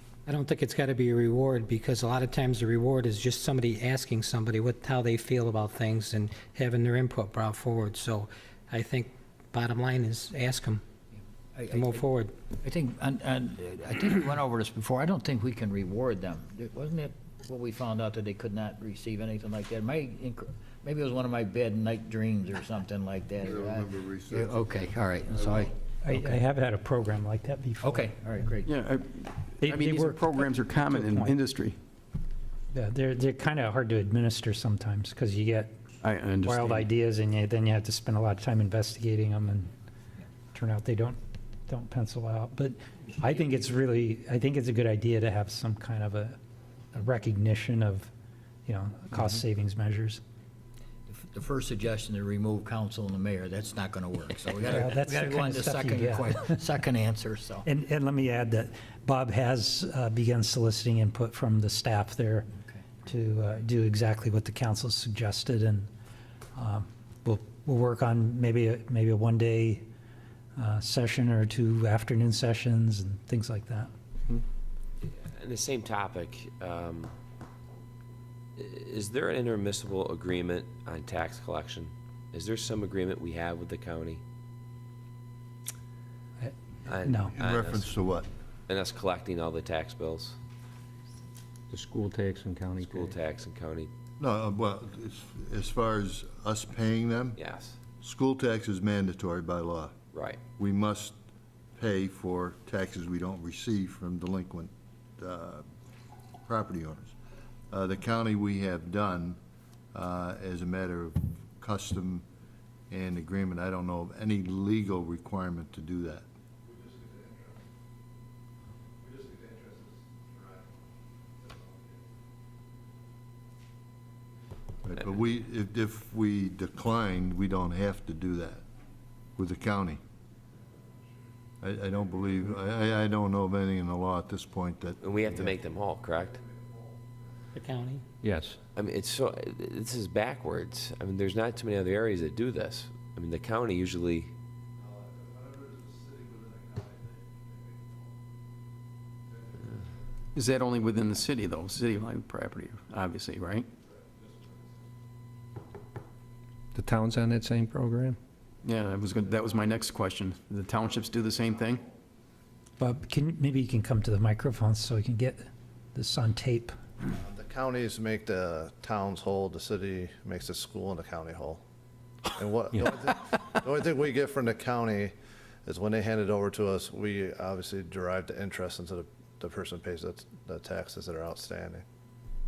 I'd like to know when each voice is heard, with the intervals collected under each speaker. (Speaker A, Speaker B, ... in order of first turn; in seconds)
Speaker A: 0.2-10.8, 11.7-12.3, 137.6-138.0
Speaker B: 11.5-12.0, 12.6-25.7, 27.8-28.7, 51.1-57.6
Speaker C: 23.4-25.7, 87.3-88.3, 94.2-97.4, 98.0-100.0, 100.6-101.2, 101.8-105.6, 106.5-107.1, 107.7-109.4, 109.9-112.2, 112.9-116.2, 124.8-128.6, 129.4-130.0, 131.6-135.6
Speaker D: 26.0-28.5, 29.6-31.3, 32.7-35.8, 36.5-39.7, 40.5-46.4, 46.9-48.1, 48.6-50.2, 54.6-56.6, 57.6-62.5, 63.0-65.9, 66.6-69.9, 70.6-73.9, 86.4-87.3, 162.8-166.8
Speaker E: 28.6-31.8, 36.0-36.9, 150.3-153.7, 158.6-161.9
Speaker F: 75.0-77.1, 78.6-84.2, 86.9-87.9, 88.7-90.4, 92.8-93.9, 97.4-97.8, 100.1-100.4, 135.0-136.4, 138.8-144.3
Speaker G: 91.7-93.1, 138.2-138.6, 156.8-158.2
Speaker H: 145.2-146.9, 167.1-171.6, 172.3-175.1, 175.7-181.8